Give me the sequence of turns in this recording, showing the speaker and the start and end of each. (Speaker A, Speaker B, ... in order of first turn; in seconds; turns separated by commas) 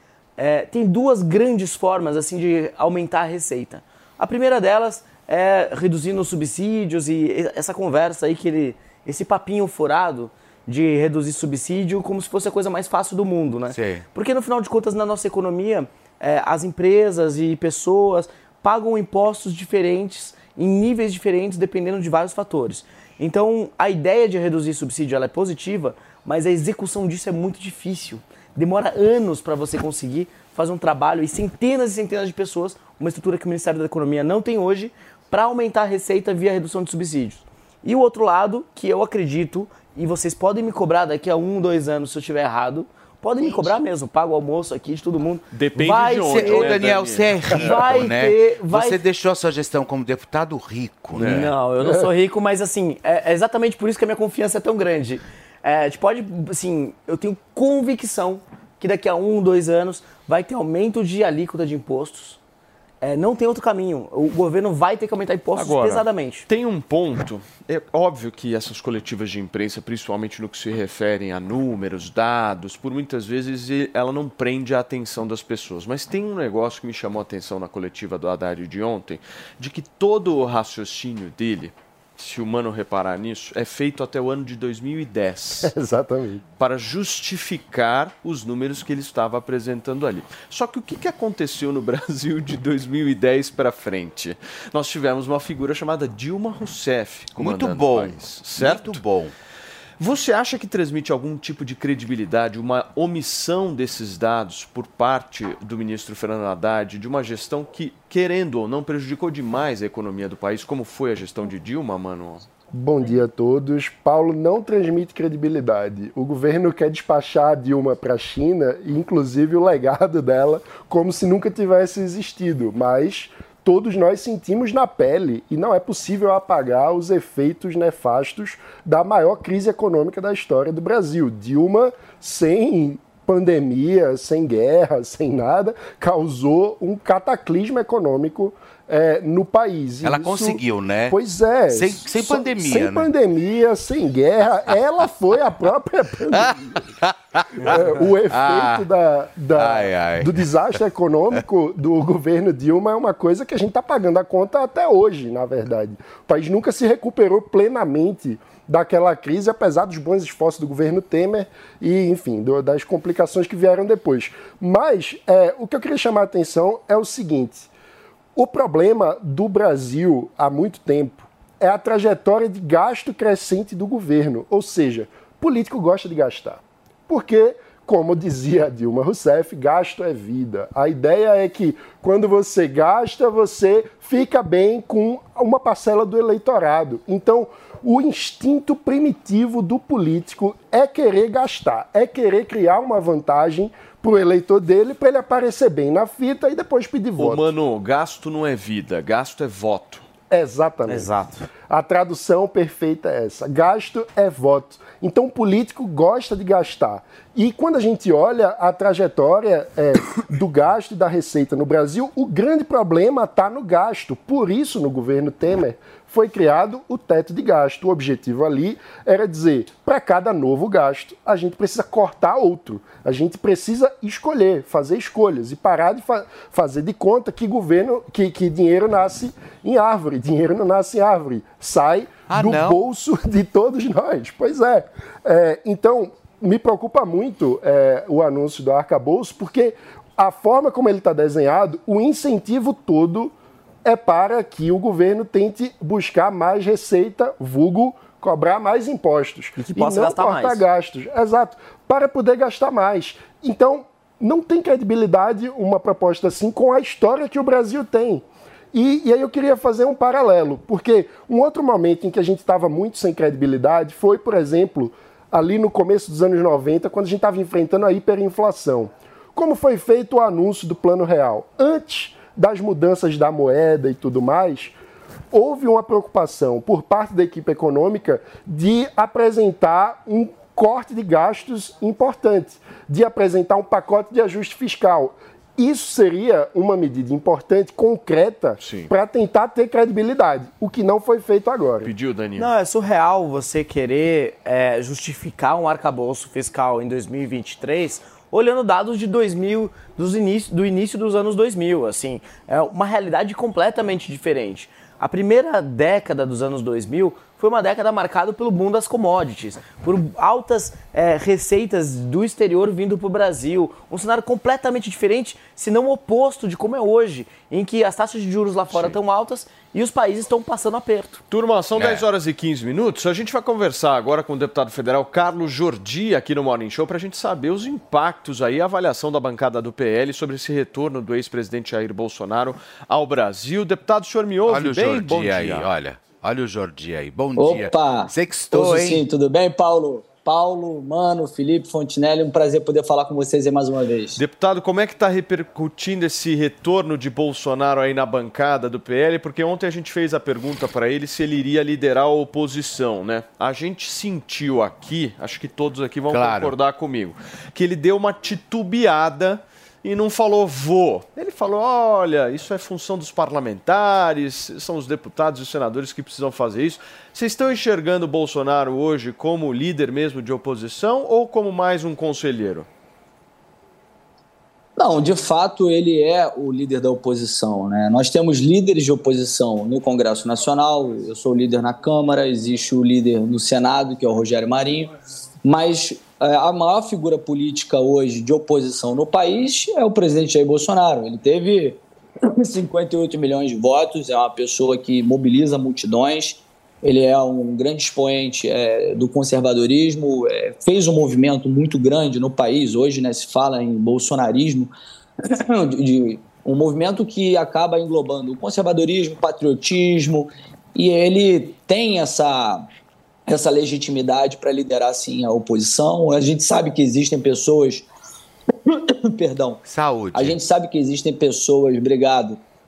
Speaker A: 0.4-46.9, Speaker B: 13.7-14.1, Speaker C: 45.5-47.9, Speaker B: 46.3-51.5, Speaker A: 47.5-49.0, Speaker C: 51.2-51.5, Speaker A: 51.2-62.4, Speaker D: 51.8-52.1, Speaker A: 63.0-66.5, Speaker C: 65.6-85.7, Speaker D: 85.6-86.4, Speaker C: 86.6-99.0, Speaker B: 97.3-99.3, Speaker C: 100.0-112.4, Speaker D: 112.7-146.8, Speaker B: 140.0-141.2, Speaker B: 141.7-143.1, Speaker B: 146.3-148.8, Speaker D: 147.6-167.7, Speaker B: 149.6-150.4, Speaker D: 168.4-197.5, Speaker C: 197.2-200.0, Speaker D: 200.3-201.1, Speaker A: 200.9-201.4, Speaker D: 201.7-274.8, Speaker B: 232.3-232.8, Speaker A: 249.6-250.6, Speaker D: 275.3-291.9, Speaker C: 288.6-288.9, Speaker C: 291.8-292.5, Speaker A: 292.4-321.2, Speaker C: 321.3-335.7, Speaker B: 321.8-322.1, Speaker B: 334.4-339.1, Speaker E: 337.4-344.2, Speaker C: 344.2-372.7, Speaker B: 356.1-356.5, Speaker E: 374.8-384.9, Speaker E: 385.4-404.7, Speaker E: 405.3-412.7, Speaker E: 413.3-417.9, Speaker E: 418.7-422.4, Speaker B: 419.7-420.4